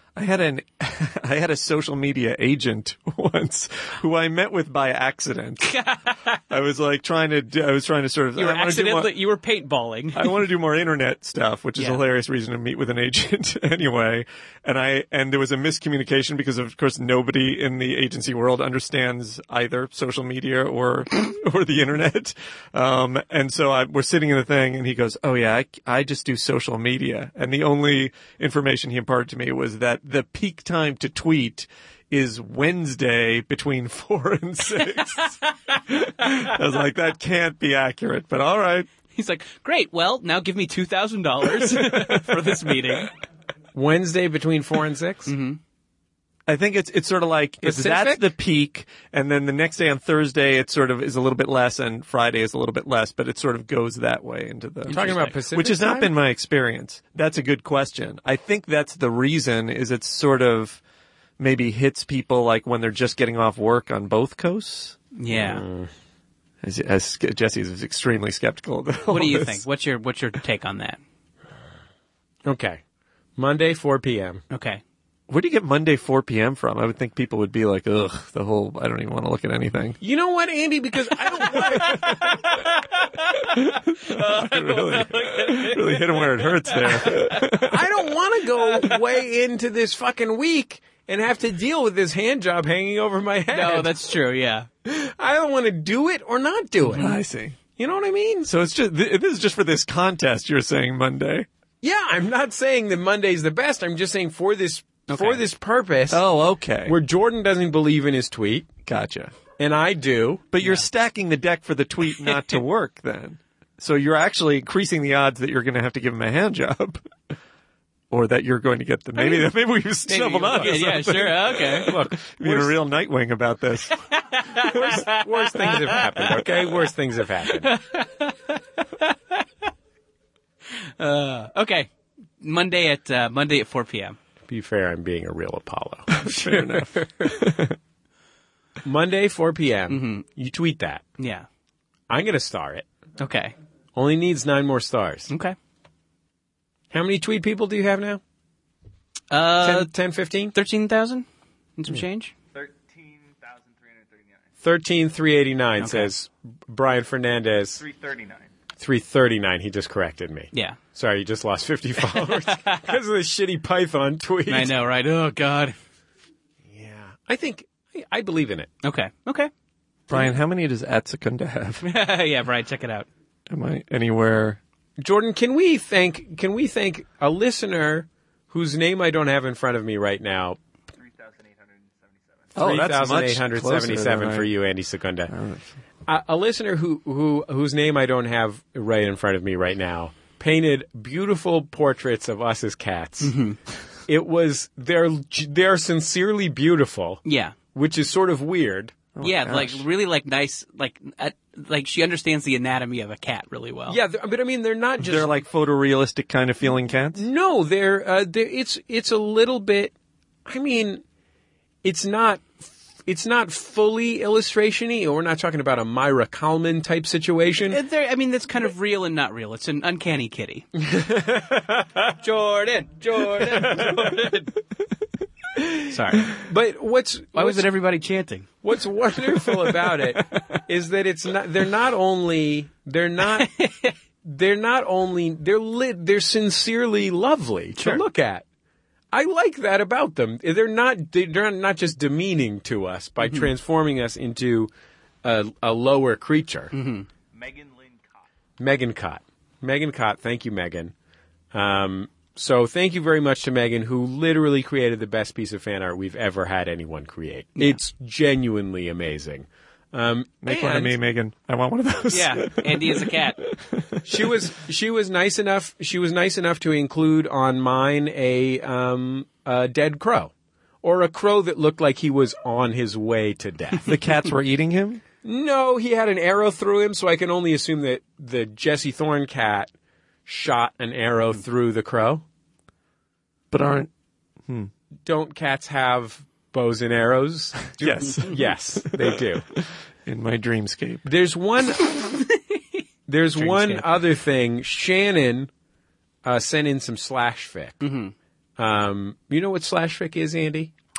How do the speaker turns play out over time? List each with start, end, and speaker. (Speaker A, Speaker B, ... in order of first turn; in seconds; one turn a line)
Speaker A: 0.1-5.8
Speaker B: 5.6-6.4
Speaker A: 6.5-9.1
Speaker B: 8.3-10.3
Speaker A: 10.1-38.9
Speaker B: 11.8-12.0
Speaker B: 39.1-43.1
Speaker C: 43.7-45.3
Speaker B: 45.2-45.6
Speaker A: 46.5-60.8
Speaker C: 47.6-48.3
Speaker B: 54.9-55.4
Speaker C: 54.9-56.1
Speaker A: 61.4-65.0
Speaker B: 65.2-65.6
Speaker C: 65.3-65.9
Speaker A: 66.6-69.6
Speaker B: 69.1-71.0
Speaker C: 72.4-72.8
Speaker C: 73.4-74.4
Speaker B: 74.5-74.8
Speaker A: 75.3-80.0
Speaker C: 80.0-82.2
Speaker B: 81.4-87.5
Speaker A: 83.6-87.9
Speaker C: 87.5-93.9
Speaker B: 93.5-94.7
Speaker C: 94.8-97.1
Speaker B: 96.8-97.2
Speaker A: 97.0-97.6
Speaker C: 97.8-98.5
Speaker A: 98.5-101.5
Speaker C: 101.8-106.2
Speaker B: 105.1-105.4
Speaker A: 106.1-107.0
Speaker C: 106.8-108.7
Speaker A: 108.8-109.3
Speaker C: 109.6-110.4
Speaker A: 110.5-117.0
Speaker B: 110.6-110.8
Speaker B: 112.2-112.6
Speaker A: 118.1-123.9
Speaker B: 119.2-119.5
Speaker B: 120.1-121.9
Speaker C: 120.2-122.8
Speaker B: 124.1-126.5
Speaker C: 124.6-127.7
Speaker B: 127.5-129.4
Speaker B: 131.0-131.9
Speaker B: 132.4-134.2
Speaker C: 134.5-136.3
Speaker A: 136.1-137.7
Speaker B: 136.3-136.8
Speaker C: 138.8-141.0
Speaker B: 139.9-140.2
Speaker B: 141.2-141.4
Speaker C: 142.1-142.8
Speaker B: 143.2-143.5
Speaker C: 143.9-145.3
Speaker B: 145.3-145.5
Speaker C: 146.9-148.2
Speaker B: 149.3-149.9
Speaker C: 149.6-150.5
Speaker B: 150.5-151.2
Speaker B: 151.8-152.3
Speaker D: 152.5-154.5
Speaker C: 154.6-157.8
Speaker B: 155.8-156.1
Speaker D: 157.8-158.5
Speaker C: 158.8-164.8
Speaker B: 160.5-160.8
Speaker B: 162.1-162.9
Speaker B: 164.5-165.8
Speaker C: 166.7-168.7
Speaker B: 168.8-169.5
Speaker A: 170.1-171.8
Speaker B: 171.8-173.1
Speaker A: 173.5-174.6
Speaker C: 175.0-180.6
Speaker D: 180.9-182.6
Speaker A: 182.5-184.5
Speaker C: 182.5-185.3
Speaker A: 185.3-185.7
Speaker C: 186.1-193.3
Speaker B: 193.2-193.6
Speaker C: 194.1-197.2
Speaker B: 197.2-197.5
Speaker C: 197.7-199.0
Speaker A: 199.1-199.8
Speaker B: 199.2-204.0
Speaker C: 203.9-205.3
Speaker A: 205.0-207.2
Speaker C: 207.1-209.9
Speaker C: 210.4-211.0
Speaker C: 211.8-217.8
Speaker B: 217.7-220.7
Speaker C: 220.8-222.1
Speaker B: 222.2-224.5
Speaker C: 223.3-224.0
Speaker C: 225.6-227.7
Speaker B: 225.9-226.4
Speaker B: 227.3-228.5
Speaker C: 228.6-233.5
Speaker B: 233.3-233.9
Speaker C: 234.2-238.4
Speaker B: 237.8-238.0
Speaker C: 239.1-244.7
Speaker B: 243.2-243.5
Speaker C: 245.2-246.7
Speaker B: 246.7-247.1
Speaker D: 247.3-248.2
Speaker C: 248.6-250.9
Speaker C: 251.5-261.0
Speaker A: 260.4-264.2
Speaker B: 262.1-263.4
Speaker C: 264.1-270.3
Speaker C: 270.8-273.9
Speaker A: 273.8-275.0
Speaker C: 275.2-279.7
Speaker C: 280.2-282.2
Speaker A: 283.5-283.9
Speaker C: 285.0-289.4
Speaker A: 287.8-291.1
Speaker C: 291.1-292.0
Speaker B: 292.0-292.8
Speaker C: 293.1-295.5
Speaker B: 293.3-293.9
Speaker C: 296.2-297.8
Speaker B: 297.8-298.1
Speaker C: 298.6-300.7